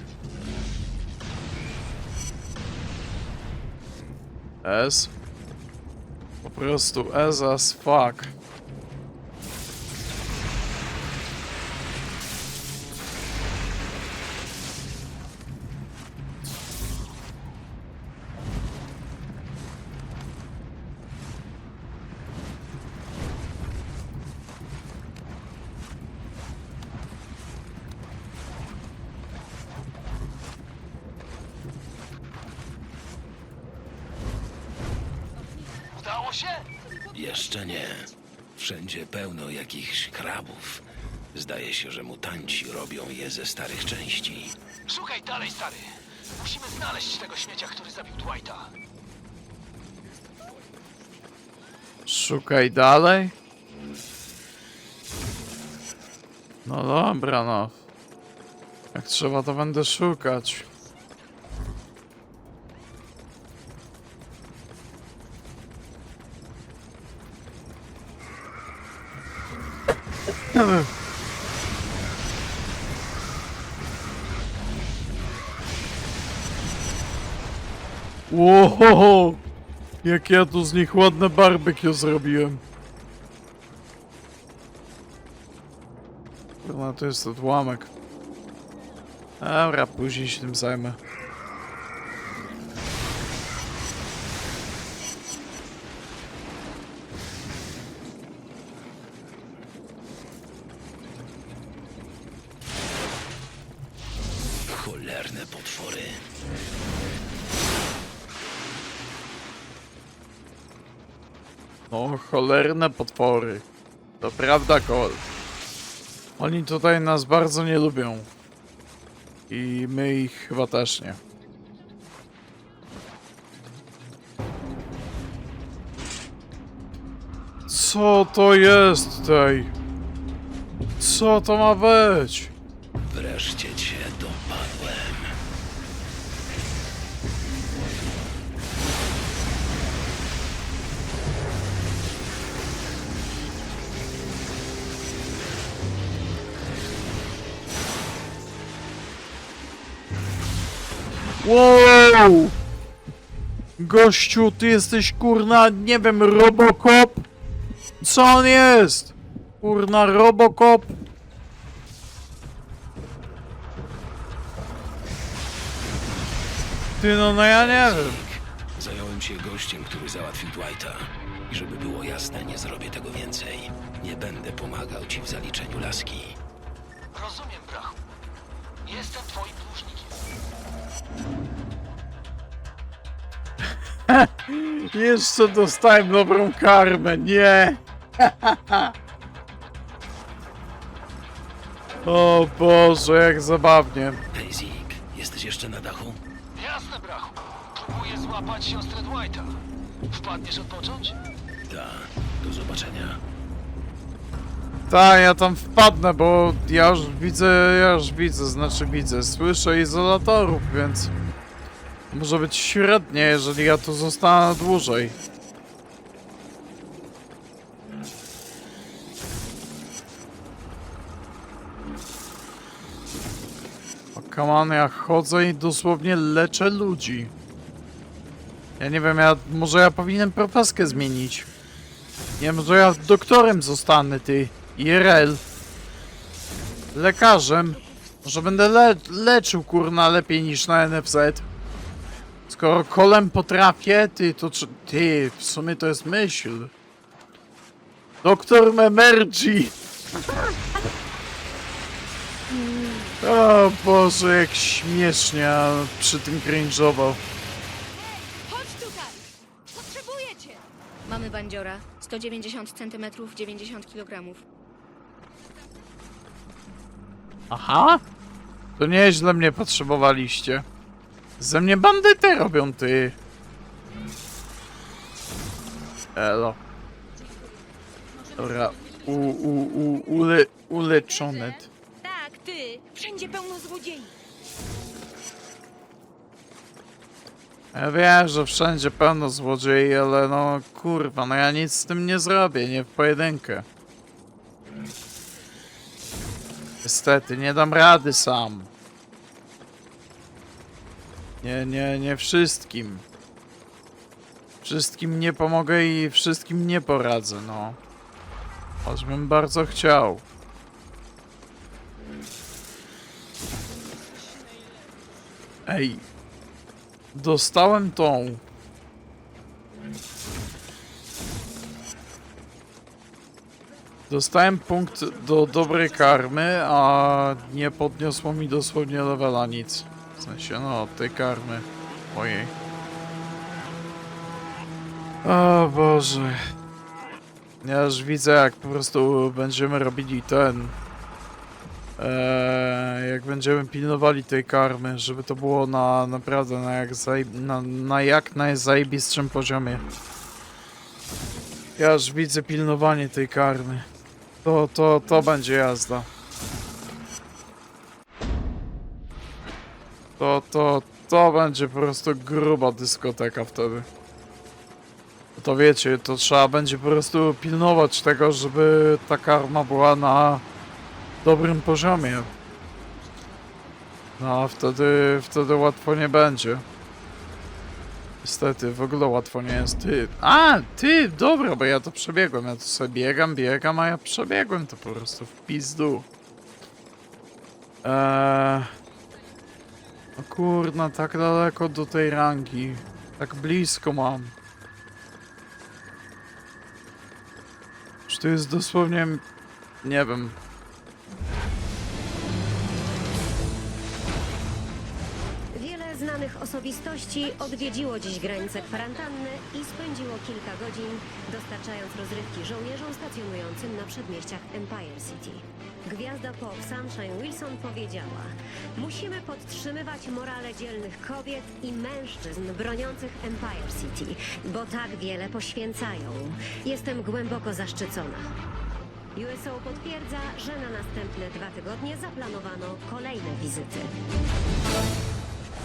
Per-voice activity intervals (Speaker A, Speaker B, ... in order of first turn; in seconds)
Speaker A: 4.6-5.1, 6.4-8.3, 52.1-53.3, 56.7-57.8, 58.9-60.7, 70.4-70.9, 78.3-79.4, 80.0-82.6, 86.6-87.9, 89.4-91.0, 111.9-113.7, 114.2-115.3, 116.4-118.3, 119.5-121.2, 127.7-129.7, 131.0-132.5, 151.4-152.6, 153.8-157.3, 158.0-160.9, 167.0-168.2, 183.7-188.9, 192.0-194.2, 204.9-211.1, 212.1-215.2, 224.2-227.3, 228.8-231.5, 232.4-235.4, 236.9-241.5, 242.5-246.7, 248.2-250.6, 253.2-257.2, 267.5-268.0, 268.8-270.7, 271.4-273.2, 276.2-276.6, 278.4-281.7, 287.7-293.7, 296.8-298.7, 301.4-303.1, 304.6-307.8, 308.8-310.2, 315.7-316.1, 317.1-318.4, 324.1-332.5, 335.2-336.4, 337.6-340.8, 342.0-349.9, 351.8-353.9, 354.4-356.1, 360.2-363.9, 365.4-370.4, 371.2-372.3, 374.2-376.6, 378.2-386.1, 387.8-388.7, 390.2-394.4, 398.1-399.2, 399.8-400.4
Speaker B: 35.9-36.7, 44.9-48.7, 177.1-178.0, 178.9-180.2, 196.6-199.6, 200.1-201.2
Speaker C: 37.1-44.6, 104.7-106.2, 133.0-135.3, 167.5-176.4, 194.3-196.2, 201.7-203.2
Speaker D: 252.5-253.2, 258.0-264.4, 278.1-279.7, 280.7-284.1
Speaker E: 405.5-428.3, 429.2-433.9